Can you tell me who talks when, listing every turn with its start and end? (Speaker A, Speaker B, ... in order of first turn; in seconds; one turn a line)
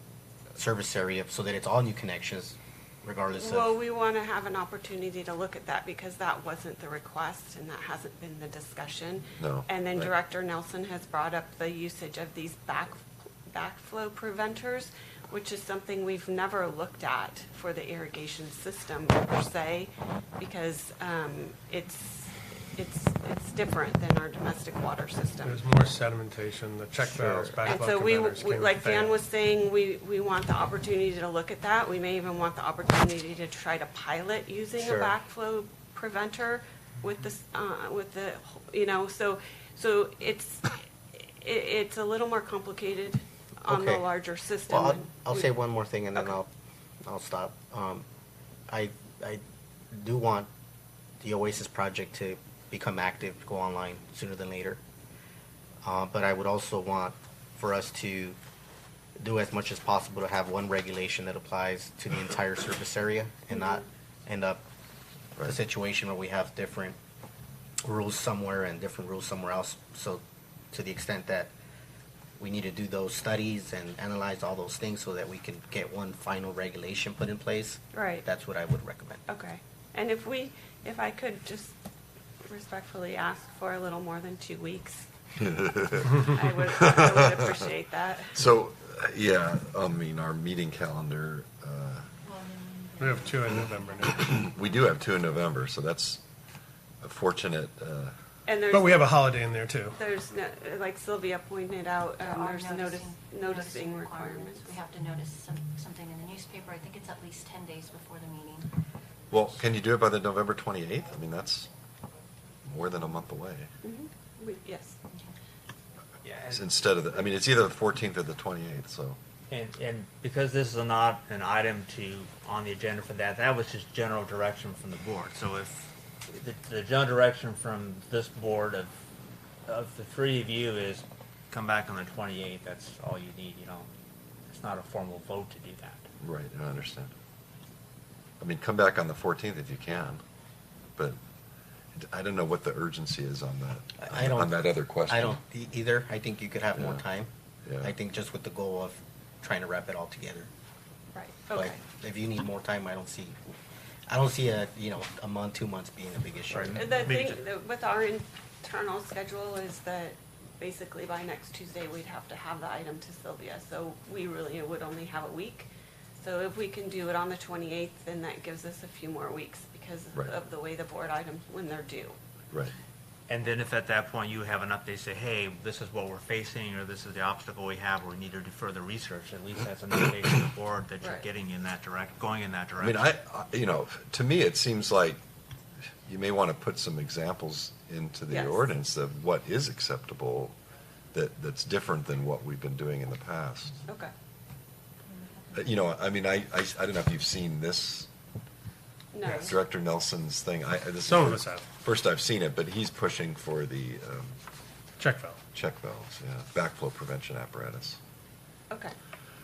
Speaker A: 0.6-3.8
Speaker B: 3.3-25.7
Speaker C: 9.4-10.1
Speaker D: 25.4-29.1
Speaker A: 27.1-27.6
Speaker B: 27.6-45.5
Speaker A: 34.8-35.2
Speaker A: 43.7-44.1
Speaker A: 44.7-46.5
Speaker A: 47.0-48.1
Speaker A: 48.7-50.5
Speaker A: 51.2-54.8
Speaker A: 55.8-58.4
Speaker A: 59.2-64.6
Speaker A: 65.4-67.0
Speaker A: 67.8-71.5
Speaker A: 72.4-79.2
Speaker B: 77.9-78.2
Speaker B: 79.3-81.8
Speaker B: 82.5-85.1
Speaker C: 85.4-87.7
Speaker B: 86.2-88.4
Speaker C: 88.4-92.1
Speaker E: 92.2-94.1
Speaker D: 93.0-94.4
Speaker C: 94.1-96.2
Speaker C: 97.0-98.1
Speaker B: 98.5-99.1
Speaker D: 98.7-100.0
Speaker B: 100.0-104.7
Speaker E: 102.2-108.7
Speaker C: 109.3-111.7
Speaker C: 112.7-113.7
Speaker B: 113.8-115.0
Speaker F: 116.2-116.7
Speaker C: 116.5-119.2
Speaker F: 119.5-128.9
Speaker F: 129.7-133.9
Speaker F: 134.5-136.1
Speaker C: 136.2-137.1
Speaker C: 138.4-140.2
Speaker C: 142.0-145.4
Speaker A: 144.0-147.3
Speaker C: 146.8-147.0
Speaker C: 147.7-147.9
Speaker A: 147.8-150.5
Speaker B: 151.1-151.8
Speaker A: 151.5-153.4
Speaker A: 154.1-156.9
Speaker D: 156.5-157.2
Speaker B: 156.8-172.2
Speaker F: 173.3-183.1
Speaker C: 182.8-185.2
Speaker C: 186.1-190.6
Speaker B: 188.3-188.7
Speaker C: 191.1-193.8
Speaker C: 195.5-198.1
Speaker B: 199.1-199.6
Speaker C: 199.2-204.4
Speaker D: 201.1-201.7
Speaker D: 205.0-205.4
Speaker C: 205.5-208.0
Speaker B: 208.7-208.9